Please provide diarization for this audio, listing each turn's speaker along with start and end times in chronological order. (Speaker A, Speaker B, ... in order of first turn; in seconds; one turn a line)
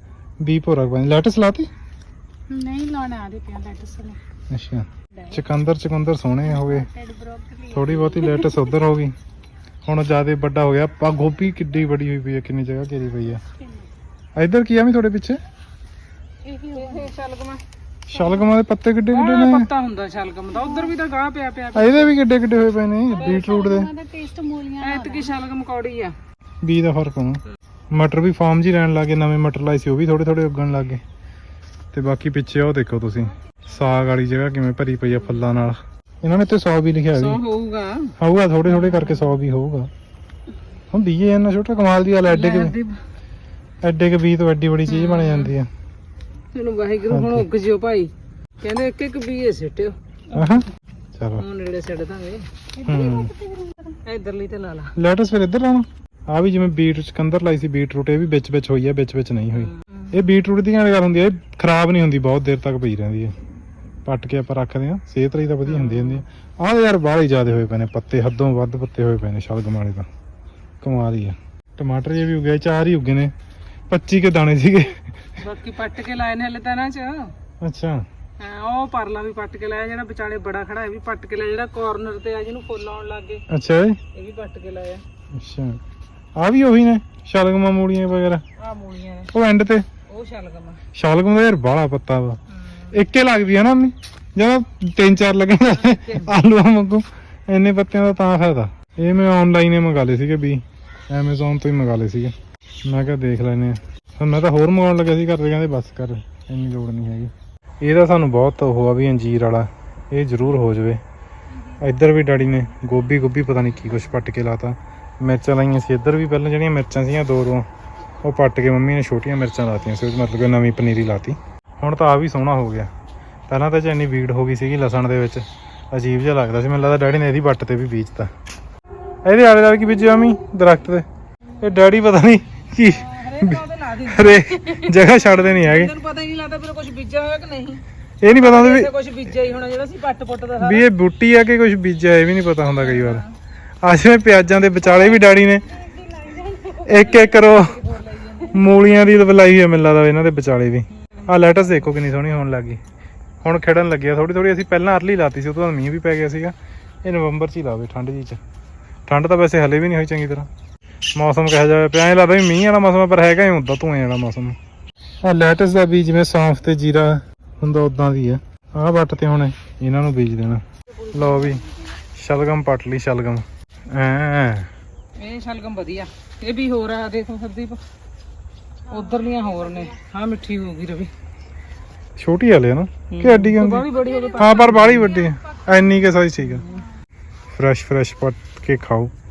Speaker A: 0.4-1.7
Speaker B: 2.5-4.2
Speaker A: 4.5-6.9
Speaker B: 6.6-8.4
Speaker A: 7.7-9.1
Speaker A: 9.9-13.4
Speaker A: 14.4-15.4
Speaker B: 16.5-17.1
Speaker C: 16.7-17.6
Speaker A: 18.1-19.7
Speaker C: 19.1-22.1
Speaker A: 21.8-23.9
Speaker C: 23.1-23.5
Speaker B: 23.2-25.3
Speaker C: 24.8-26.1
Speaker A: 26.6-27.4
Speaker A: 27.9-31.0
Speaker A: 31.9-37.4
Speaker C: 37.1-38.1
Speaker A: 38.2-39.9
Speaker A: 40.9-42.8
Speaker C: 42.3-43.0
Speaker A: 43.8-45.7
Speaker C: 44.9-45.5
Speaker C: 46.5-50.5
Speaker A: 47.1-47.5
Speaker A: 50.3-51.4
Speaker C: 51.4-53.0
Speaker A: 52.8-53.3
Speaker B: 53.0-53.4
Speaker C: 54.0-54.9
Speaker A: 55.0-63.3
Speaker C: 59.6-60.1
Speaker A: 64.0-70.1
Speaker C: 65.7-66.2
Speaker A: 70.8-73.3
Speaker A: 73.9-75.0
Speaker C: 75.4-77.3
Speaker A: 77.6-78.0
Speaker C: 78.4-83.4
Speaker A: 83.5-84.0
Speaker C: 84.1-85.0
Speaker A: 85.4-85.8
Speaker A: 86.4-88.4
Speaker C: 88.6-89.3
Speaker A: 89.3-89.8
Speaker C: 90.1-90.8
Speaker A: 91.0-102.3
Speaker C: 95.7-96.3
Speaker A: 102.9-111.0
Speaker A: 111.8-117.7
Speaker A: 118.2-122.9
Speaker A: 123.5-128.3
Speaker A: 129.2-131.1
Speaker A: 131.6-135.9
Speaker C: 133.0-140.8
Speaker A: 138.2-138.9
Speaker A: 140.6-143.2
Speaker C: 142.8-143.3
Speaker A: 143.8-145.7
Speaker C: 145.0-145.2
Speaker C: 146.0-148.6
Speaker A: 146.8-147.8
Speaker A: 148.4-152.8
Speaker A: 153.4-158.4
Speaker A: 159.1-160.5
Speaker A: 161.2-164.6
Speaker A: 165.2-170.6
Speaker A: 171.1-171.6
Speaker A: 172.2-174.7
Speaker C: 175.2-177.8
Speaker C: 178.9-181.1
Speaker A: 182.2-186.6
Speaker C: 183.1-185.1
Speaker C: 186.4-186.8
Speaker A: 187.5-189.1